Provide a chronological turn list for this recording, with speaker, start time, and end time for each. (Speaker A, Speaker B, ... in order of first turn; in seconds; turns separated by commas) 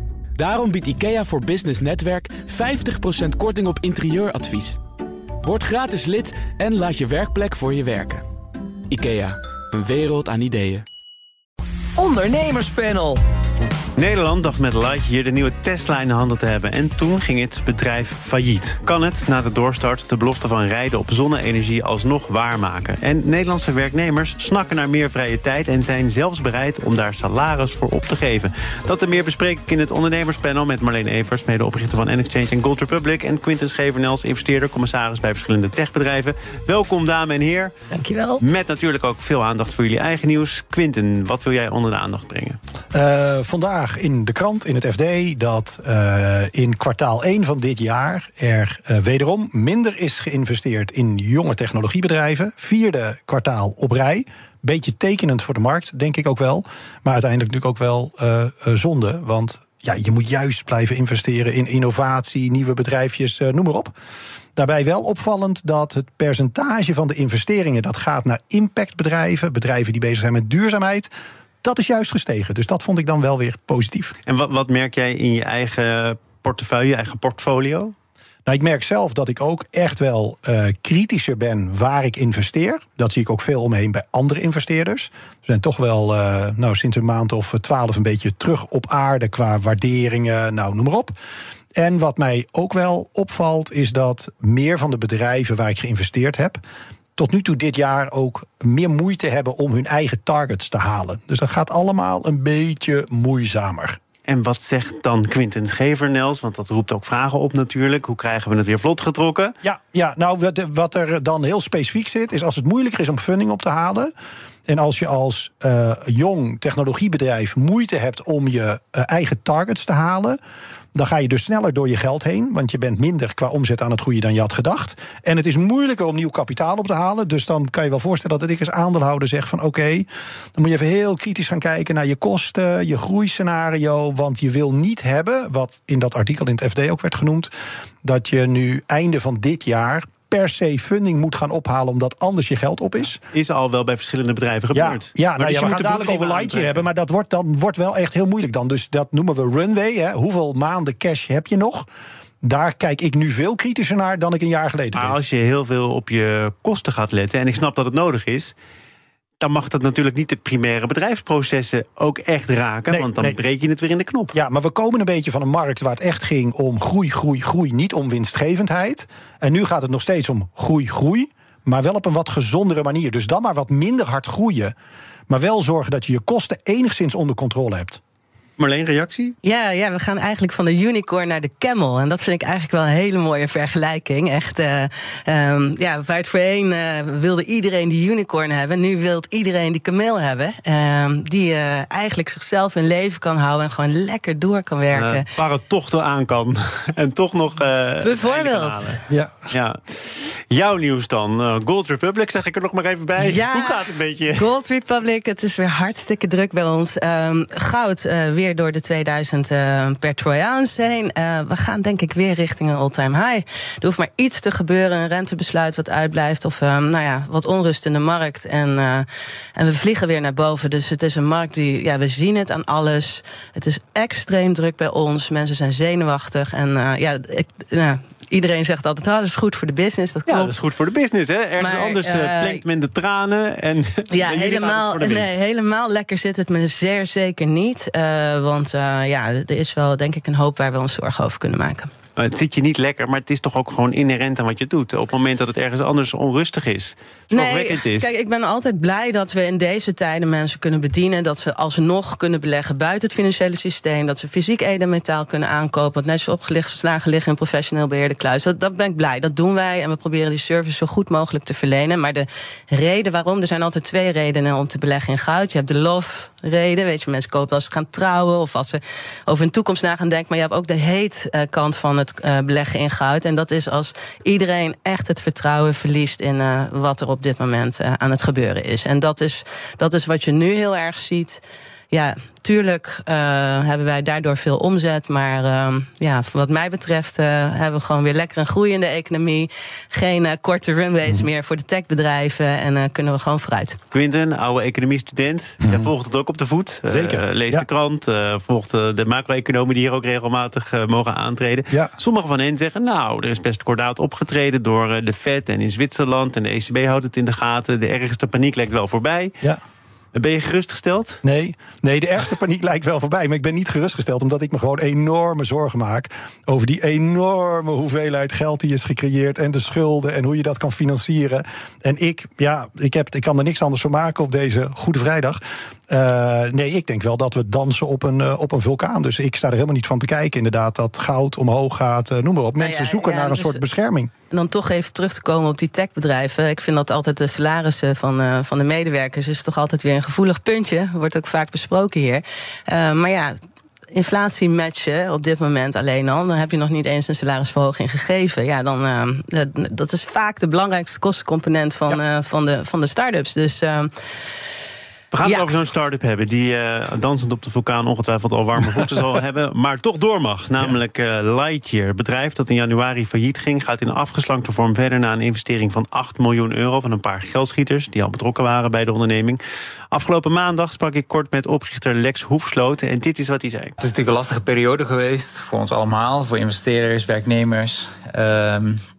Speaker A: 0.3-4.8, Speaker A: 5.4-8.2, Speaker A: 8.9-10.8, Speaker A: 12.0-13.2, Speaker B: 14.0-37.7, Speaker C: 37.9-38.4, Speaker B: 38.4-42.6, Speaker D: 42.9-63.9, Speaker D: 64.5-71.1, Speaker D: 71.6-74.1, Speaker B: 74.2-77.9, Speaker D: 78.5-91.1, Speaker D: 91.7-96.6, Speaker D: 97.2-104.0, Speaker B: 104.3-109.5, Speaker D: 109.6-114.1, Speaker D: 114.7-120.4, Speaker D: 120.9-137.5, Speaker D: 138.0-143.2, Speaker B: 143.3-146.8, Speaker D: 144.7-151.9, Speaker D: 152.4-155.2, Speaker B: 154.9-158.5, Speaker B: 159.4-164.3, Speaker D: 162.9-163.4, Speaker D: 164.3-174.7, Speaker D: 175.3-178.0, Speaker B: 178.6-179.3, Speaker C: 179.4-195.3, Speaker B: 194.9-204.4, Speaker C: 198.0-199.0, Speaker D: 199.1-199.5, Speaker C: 203.2-230.6, Speaker B: 230.3-235.3, Speaker C: 231.6-232.6, Speaker C: 234.1-241.9, Speaker B: 242.2-248.1, Speaker C: 247.3-293.8, Speaker B: 293.9-309.3, Speaker D: 295.6-295.9, Speaker D: 296.9-297.6, Speaker B: 310.1-311.2, Speaker D: 311.2-334.1, Speaker C: 332.6-333.6, Speaker C: 334.3-343.3, Speaker C: 343.9-353.9, Speaker B: 355.1-369.4, Speaker C: 355.2-355.5, Speaker B: 369.9-373.8, Speaker E: 373.8-378.8